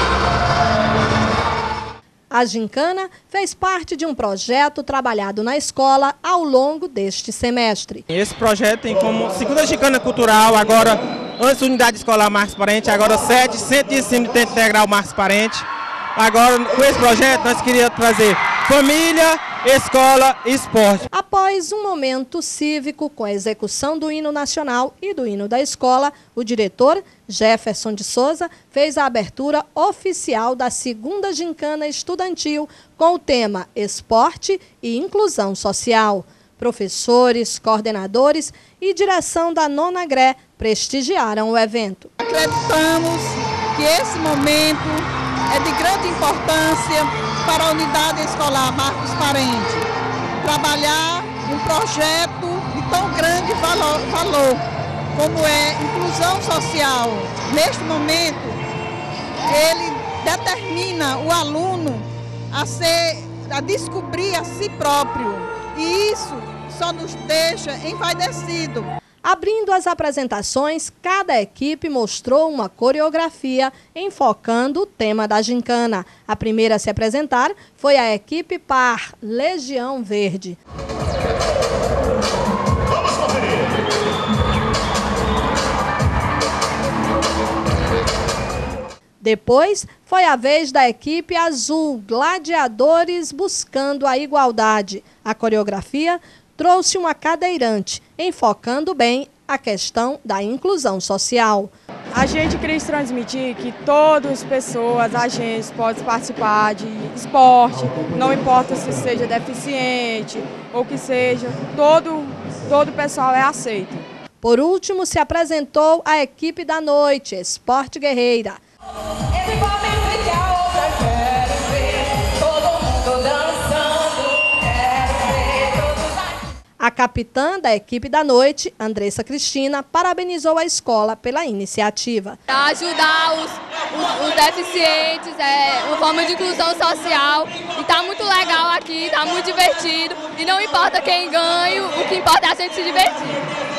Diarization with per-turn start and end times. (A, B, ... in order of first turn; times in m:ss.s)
0:02.3-0:08.0 A
0:08.1-0:21.0 B
0:21.1-0:42.1 A
0:42.2-0:49.9 C
0:50.4-0:54.6 C
0:55.1-0:58.6 C
0:59.5-1:08.9 C
1:09.2-1:20.6 A
1:29.2-1:41.7 A
1:42.1-1:54.0 D
1:54.4-1:58.6 A
1:59.3-2:06.1 E
2:06.8-2:12.4 A
2:12.5-2:23.4 E